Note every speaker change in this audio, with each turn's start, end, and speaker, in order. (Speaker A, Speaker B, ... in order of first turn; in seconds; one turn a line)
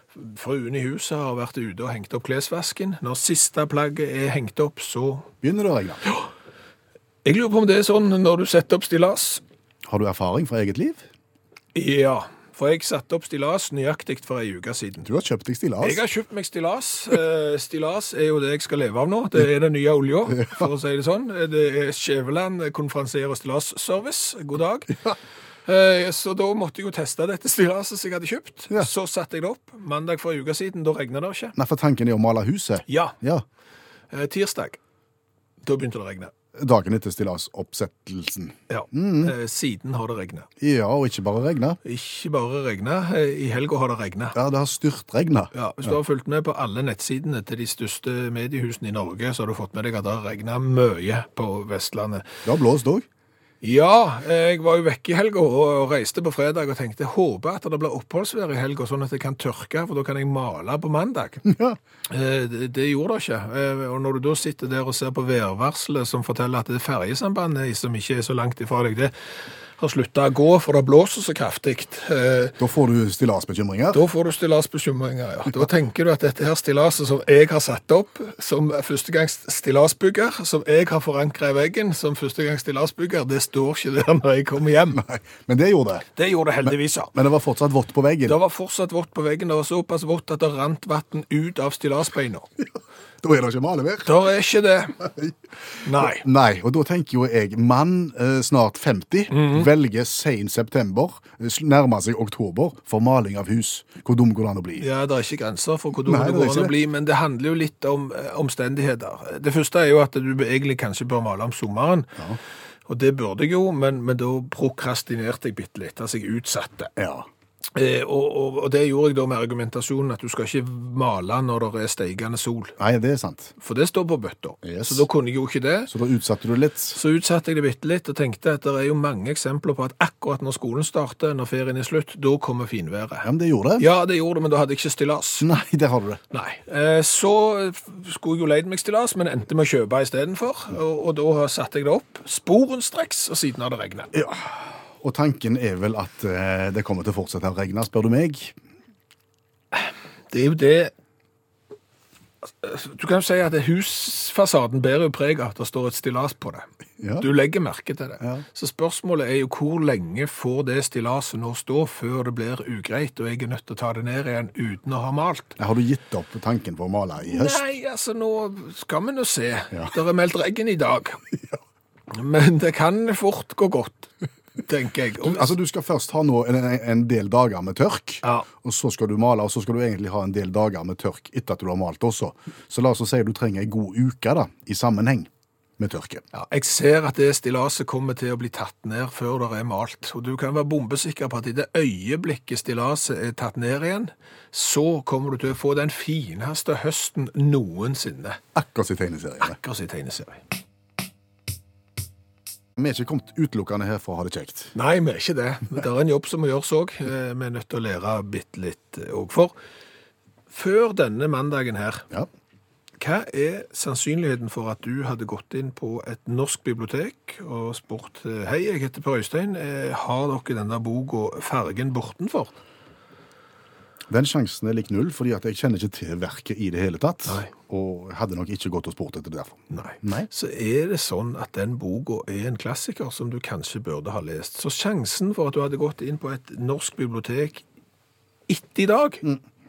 Speaker A: 0.1-5.3
Speaker B: 5.4-6.0
Speaker A: 7.2-9.4
Speaker B: 9.8-11.0
Speaker A: 11.7-15.1
Speaker B: 15.0-16.0
Speaker A: 15.8-25.0
Speaker B: 20.4-20.7
Speaker A: 25.6-31.5
Speaker B: 31.6-33.4
Speaker A: 32.9-33.1
Speaker A: 34.1-34.8
Speaker A: 35.6-36.3
Speaker B: 36.5-39.3
Speaker A: 38.7-40.5
Speaker B: 40.6-41.8
Speaker A: 41.8-44.3
Speaker B: 44.3-46.0
Speaker A: 45.5-52.4
Speaker B: 52.4-53.0
Speaker A: 53.6-61.5
Speaker B: 61.5-61.8
Speaker A: 62.1-69.1
Speaker A: 69.8-72.6
Speaker B: 72.6-74.0
Speaker A: 73.9-85.0
Speaker B: 84.9-86.1
Speaker A: 86.2-87.1
Speaker B: 86.7-88.4
Speaker A: 88.2-92.5
Speaker B: 93.2-94.2
Speaker A: 94.0-95.0
Speaker B: 95.0-95.3
Speaker A: 95.8-96.2
Speaker B: 95.9-104.9
Speaker A: 99.3-99.7
Speaker A: 104.8-112.1
Speaker B: 106.0-106.7
Speaker A: 112.9-116.9
Speaker B: 117.0-117.3
Speaker A: 117.7-122.7
Speaker B: 122.8-123.5
Speaker A: 123.6-125.9
Speaker B: 124.6-125.0
Speaker B: 125.9-127.0
Speaker A: 126.9-133.3
Speaker B: 133.2-133.9
Speaker A: 133.8-135.5
Speaker B: 135.4-136.2
Speaker A: 136.3-144.1
Speaker B: 144.1-148.6
Speaker A: 149.7-150.9
Speaker A: 152.4-156.7
Speaker B: 157.0-157.3
Speaker A: 157.2-165.5
Speaker B: 165.6-167.6
Speaker A: 167.2-171.2
Speaker A: 172.1-175.5
Speaker B: 175.2-186.2
Speaker A: 186.3-198.4
Speaker B: 198.5-199.6
Speaker A: 199.4-200.4
Speaker B: 202.8-204.7
Speaker A: 204.7-209.5
Speaker A: 210.5-212.1
Speaker A: 213.0-222.5
Speaker B: 224.1-230.3
Speaker A: 229.7-237.6
Speaker A: 238.5-239.2